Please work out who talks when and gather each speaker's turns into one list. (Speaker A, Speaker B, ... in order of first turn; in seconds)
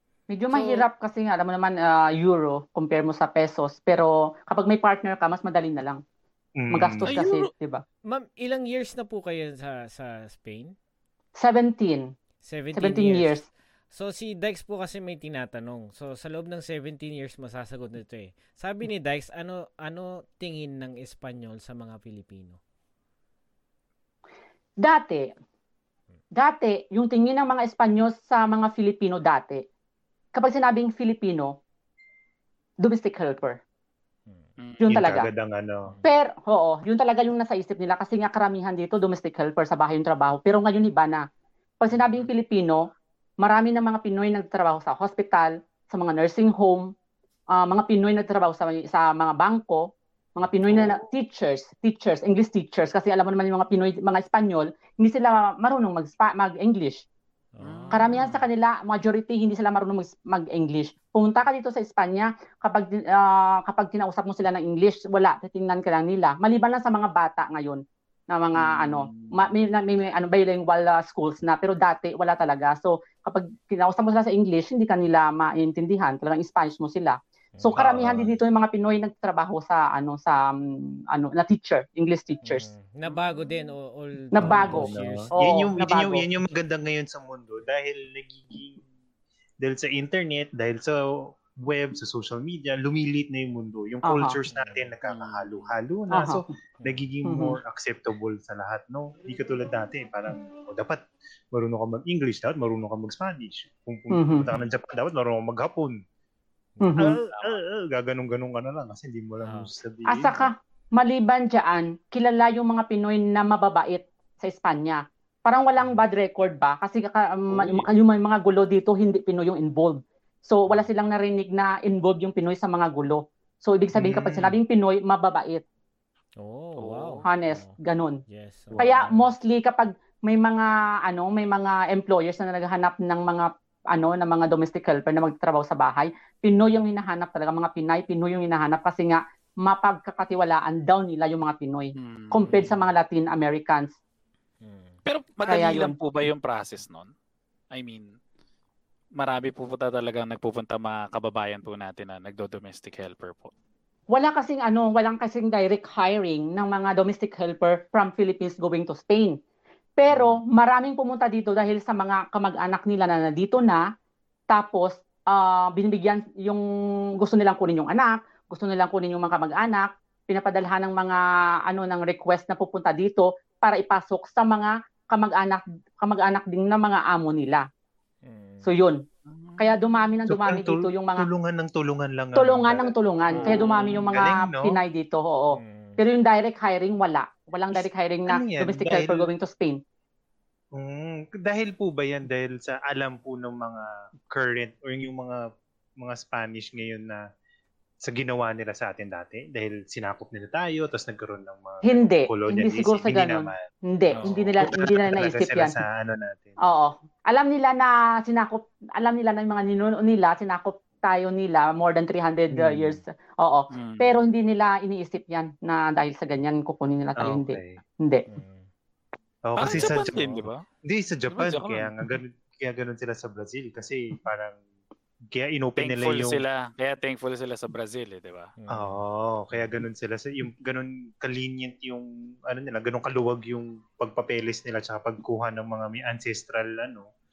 Speaker A: 0.3-6.0, 6.7-7.8, 11.3-12.1, 12.7-13.4, 24.8-25.3, 26.4-29.6, 30.3-31.5, 32.8-33.6, 34.8-35.3, 36.0-41.2, 41.8-42.8, 43.4-46.9, 47.5-57.0, 57.9-82.7, 84.3-86.2, 94.0-94.3, 96.1-96.4, 97.2-97.6, 104.1-104.5, 106.8-107.2, 110.1-125.6, 127.2-128.2, 128.8-143.9, 145.4-145.9, 154.1-159.4, 160.0-163.8, 164.5-166.6, 167.2-177.7, 178.6-179.0, 179.6-181.3, 182.3-189.8, 201.8-205.8, 206.7-218.2
Speaker B: 6.6-7.2, 34.9-35.9, 77.8-78.4, 84.4-88.8, 89.6-106.0, 107.0-110.5, 117.5-117.9, 123.9-124.6, 180.3-182.9, 183.4-184.8, 187.7-189.3, 190.7-195.4, 196.0-197.2, 198.0-203.6, 204.2-206.6, 212.5-213.0, 217.2-217.8, 219.4-224.6, 225.3-226.4, 228.7-237.1
Speaker C: 7.0-7.5, 34.6-34.9, 57.6-58.3, 95.0-95.7, 107.3-107.6, 126.8-127.2, 141.9-142.7, 145.1-147.1, 147.7-148.0, 149.2-153.5, 160.1-160.4, 179.3-179.8, 204.2-204.8, 213.7-214.2, 219.6-220.6, 221.3-221.9, 225.8-228.5
Speaker D: 8.1-10.7, 12.4-13.4, 13.9-22.6, 35.9-36.1, 41.9-42.2, 57.5-58.4, 82.4-85.3, 94.5-94.9, 106.8-107.2, 109.4-109.7, 126.4-127.7, 128.3-129.3, 142.4-142.9, 144.6-145.0, 178.2-178.7, 183.3-184.1, 185.5-186.0, 218.3-218.7, 228.6-229.7